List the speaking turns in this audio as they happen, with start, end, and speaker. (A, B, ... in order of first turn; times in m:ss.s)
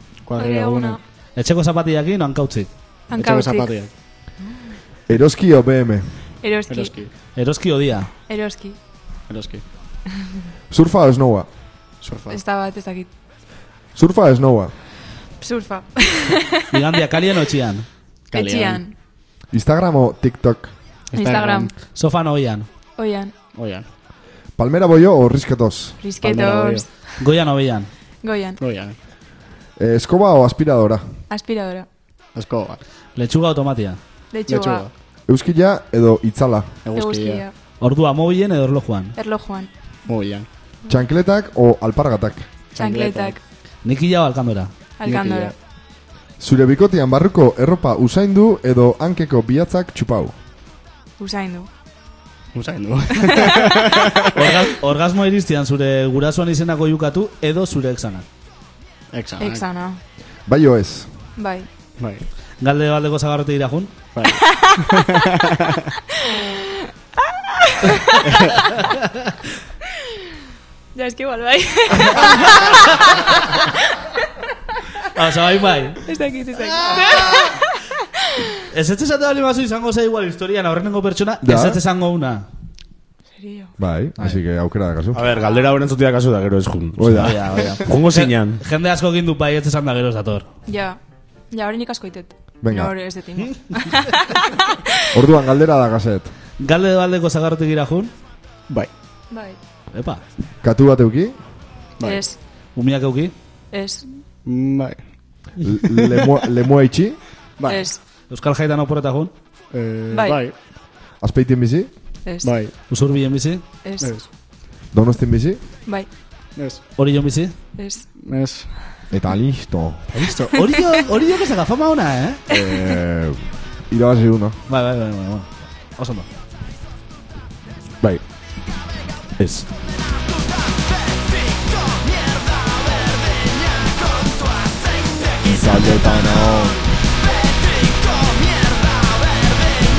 0:00.3-0:01.0 A
0:00.4-0:01.0 B
0:01.4-0:02.7 C
0:03.1-0:03.7 B
0:03.1-0:03.9 A
0:05.1-0:06.1 D
0:06.4-0:06.9 B
0:06.7-0:07.1 A
0:07.4-0:08.1 C
0:08.3-0:08.8 B
0:09.3-0:09.6 A
0:10.7-0:11.5 D
0:12.0-0:12.4 A
0:12.3-0:13.1 B
0:14.0-0:14.7 D
0:15.4-0:16.7 B
0:16.7-0:17.9 C
0:18.3-0:18.8 A
0:18.3-0:18.9 B
0:19.5-0:20.7 D
0:21.1-0:21.7 A
0:21.1-0:21.7 B
0:21.9-0:22.7 C
0:23.0-0:23.3 B
0:23.5-0:23.8 A
0:24.6-0:26.0 D
0:26.0-0:27.1 B
0:26.2-0:26.9 A
0:27.2-0:27.9 C
0:28.2-0:28.6 B
0:28.6-0:29.0 A
0:29.8-0:31.0 D
0:31.3-0:31.9 B
0:32.4-0:32.8 A
0:33.2-0:34.0 C
0:34.3-0:34.9 B
0:34.5-0:34.9 A
0:35.3-0:36.7 D
0:36.8-0:37.4 A
0:37.0-0:37.5 B
0:37.8-0:39.2 C
0:39.2-0:39.7 B
0:40.1-0:40.5 A
0:40.9-0:42.5 D
0:42.7-0:43.4 A
0:42.8-0:43.4 B
0:43.8-0:44.7 C
0:45.0-0:45.5 B
0:45.0-0:45.6 A
0:46.4-0:50.3 D
0:51.2-0:51.7 B
0:52.5-0:54.6 A
0:53.2-0:53.8 B
0:54.2-0:58.2 C
0:59.1-0:59.6 A
0:59.4-1:00.0 B
1:00.5-1:01.1 D
1:01.4-1:01.7 B
1:02.0-1:02.2 A
1:02.6-1:03.9 C
1:04.2-1:05.9 A
1:04.3-1:04.9 B
1:06.2-1:06.8 B
1:07.6-1:08.4 B
1:08.7-1:09.3 C
1:10.9-1:14.0 B
1:15.2-1:16.0 C
1:16.1-1:17.8 B
1:18.7-1:22.5 C
1:21.4-1:21.8 D
1:23.4-1:23.7 B
1:23.8-1:25.4 D
1:25.1-1:28.6 E
1:27.0-1:27.7 D
1:27.1-1:30.5 C
1:30.7-1:31.0 B
1:31.5-1:35.1 B
1:32.6-1:33.0 D
1:33.4-1:33.9 C
1:35.1-1:36.3 D
1:36.6-1:38.1 C
1:39.3-1:39.6 B
1:39.9-1:40.2 C
1:40.6-1:41.4 D
1:42.0-1:42.2 A
1:42.0-1:42.4 B
1:42.8-1:43.3 C
1:43.7-1:44.2 B
1:44.4-1:45.0 A
1:45.6-1:47.2 D
1:47.6-1:47.9 A
1:47.7-1:48.0 B
1:48.3-1:49.3 C
1:49.7-1:50.6 A
1:50.1-1:50.4 B
1:51.2-1:51.9 D
1:52.2-1:52.6 B
1:52.4-1:52.7 A
1:52.9-1:53.6 C
1:53.8-1:54.1 B
1:54.0-1:54.3 A
1:54.9-1:55.6 D
1:56.6-1:56.8 A
1:57.0-1:57.6 C
1:57.8-1:58.1 B
1:58.2-1:58.7 A
1:59.1-2:00.0 D
2:00.1-2:00.6 A
2:00.5-2:02.4 C
2:02.5-2:04.6 D
2:04.7-2:06.3 C
2:09.4-2:09.7 E
2:15.4-2:16.8 D